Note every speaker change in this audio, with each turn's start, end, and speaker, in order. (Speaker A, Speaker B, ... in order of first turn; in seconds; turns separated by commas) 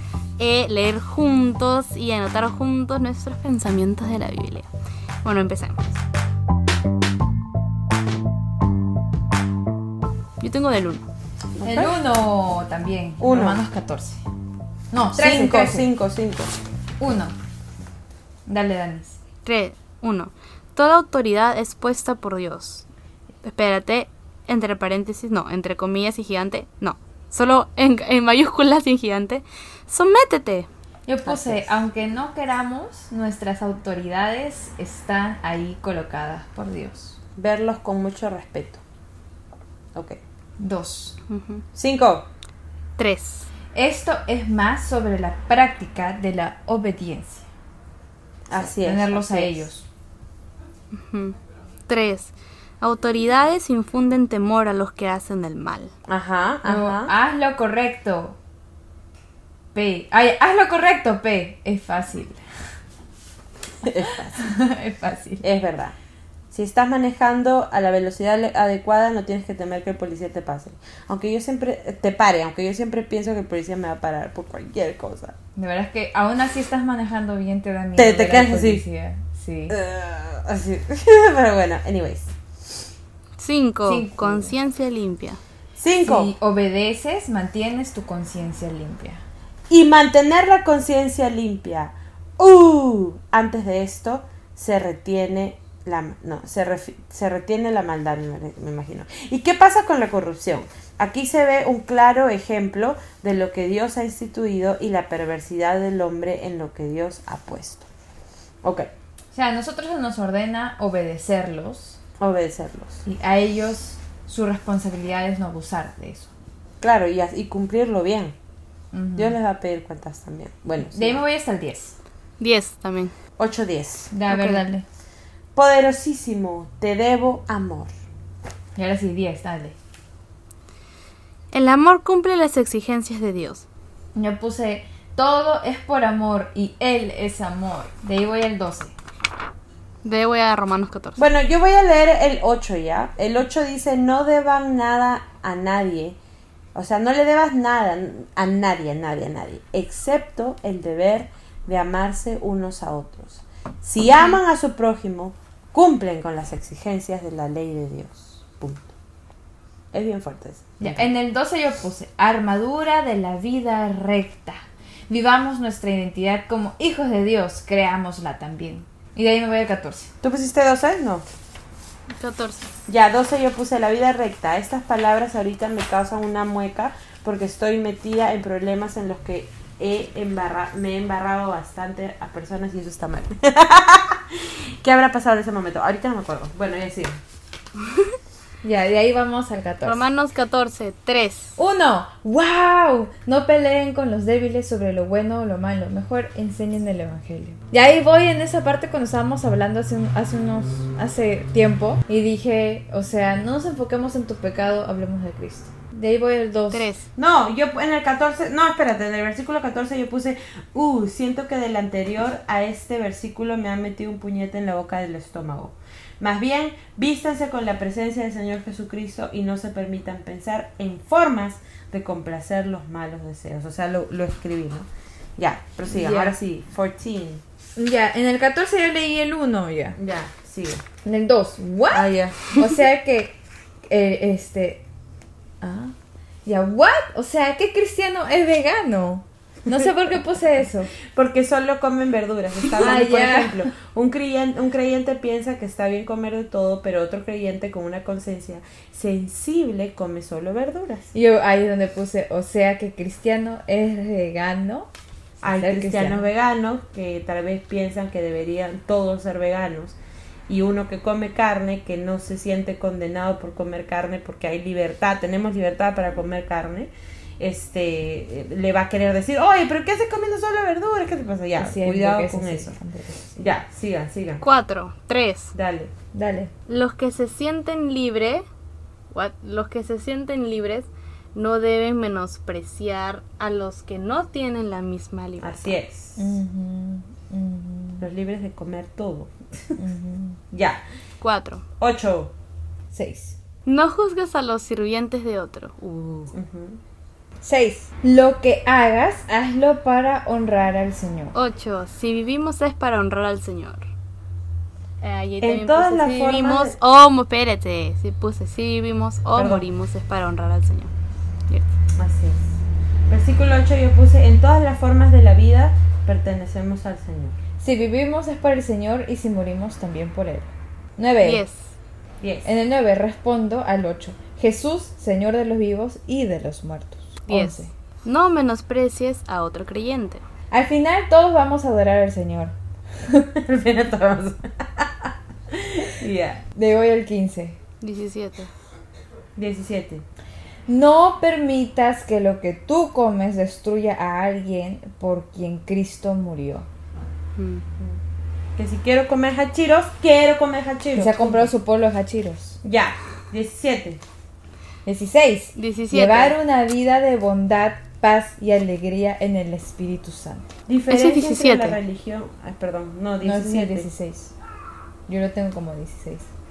Speaker A: 0.4-4.7, Speaker A: 5.2-5.8, Speaker A: 10.4-11.1, Speaker B: 11.6-12.0, Speaker C: 11.6-14.2, Speaker B: 13.2-13.6, Speaker C: 14.9-15.9, Speaker B: 15.2-16.6, Speaker C: 17.0-17.4, Speaker C: 18.5-19.2, Speaker A: 19.4-22.9, Speaker A: 23.4-30.7, Speaker C: 31.1-37.2, Speaker B: 31.3-31.8, Speaker B: 37.4-38.8, Speaker B: 40.0-40.2, Speaker C: 40.6-41.2, Speaker A: 41.3-41.6, Speaker B: 41.8-42.3, Speaker A: 43.0-43.5, Speaker C: 43.7-47.5, Speaker B: 48.5-49.7, Speaker C: 48.5-49.9, Speaker A: 50.9-51.4, Speaker A: 51.9-55.9, Speaker B: 56.1-57.1, Speaker C: 56.6-58.4, Speaker C: 59.7-62.4, Speaker B: 63.8-64.4, Speaker C: 64.0-65.4, Speaker B: 65.4-66.0, Speaker B: 66.5-75.3, Speaker C: 75.6-79.8, Speaker B: 78.0-78.8, Speaker B: 79.7-82.3, Speaker A: 83.4-85.4, Speaker C: 83.8-84.5, Speaker B: 85.8-86.3, Speaker C: 86.0-89.2, Speaker B: 89.7-107.9, Speaker B: 108.6-108.9, Speaker C: 109.3-112.0, Speaker B: 112.2-113.0, Speaker C: 113.1-116.3, Speaker B: 116.8-118.3, Speaker C: 118.9-119.4, Speaker B: 119.2-121.2, Speaker C: 120.9-122.0, Speaker A: 122.4-123.2, Speaker B: 123.4-124.1, Speaker C: 124.1-124.8, Speaker A: 124.3-124.7, Speaker B: 125.5-127.9, Speaker C: 128.8-129.8, Speaker A: 131.5-133.7, Speaker C: 134.2-138.9, Speaker A: 140.0-141.3, Speaker B: 141.2-146.2, Speaker B: 146.8-158.9, Speaker B: 159.9-161.1, Speaker C: 160.8-170.1, Speaker B: 170.2-171.2, Speaker A: 172.2-172.7, Speaker B: 172.9-187.2, Speaker C: 188.6-190.1, Speaker A: 189.8-191.6, Speaker C: 191.6-206.9, Speaker A: 206.7-207.1, Speaker B: 207.2-227.4, Speaker C: 225.9-226.4, Speaker C: 227.8-230.0, Speaker B: 230.0-230.8, Speaker C: 231.0-234.8, Speaker B: 231.9-232.3, Speaker C: 235.6-235.9, Speaker C: 236.4-240.9, Speaker B: 241.1-251.1, Speaker C: 242.8-243.7, Speaker C: 251.1-254.9, Speaker B: 255.4-260.0, Speaker C: 255.5-256.2, Speaker B: 260.5-272.8, Speaker C: 271.6-273.4, Speaker B: 273.4-274.5, Speaker A: 274.4-275.5, Speaker B: 275.5-275.9, Speaker C: 276.1-276.5, Speaker A: 276.7-278.5, Speaker A: 279.1-285.8, Speaker B: 285.4-286.4, Speaker C: 286.2-288.1, Speaker B: 288.0-289.8, Speaker C: 289.8-290.4, Speaker B: 290.5-290.8, Speaker A: 291.2-291.6, Speaker B: 291.8-292.3, Speaker C: 292.9-293.4, Speaker A: 293.7-296.3, Speaker B: 296.3-296.8, Speaker C: 297.4-301.4, Speaker A: 301.3-303.9, Speaker A: 305.0-310.9, Speaker B: 305.4-306.8, Speaker B: 309.4-309.7, Speaker B: 311.9-312.5, Speaker B: 313.1-317.4, Speaker C: 317.6-321.4, Speaker A: 321.2-321.7, Speaker B: 322.2-322.5, Speaker C: 322.4-327.7, Speaker A: 327.3-330.2, Speaker C: 330.5-332.6, Speaker B: 333.4-336.4, Speaker C: 336.6-337.6, Speaker A: 337.8-338.5, Speaker B: 339.4-340.1, Speaker C: 340.7-346.7, Speaker A: 347.4-347.6, Speaker B: 348.6-351.5, Speaker C: 350.9-352.6, Speaker B: 352.6-354.0, Speaker C: 354.9-360.5, Speaker A: 355.6-356.4, Speaker B: 360.7-363.9, Speaker A: 360.9-361.8, Speaker C: 363.2-364.3, Speaker C: 365.1-366.3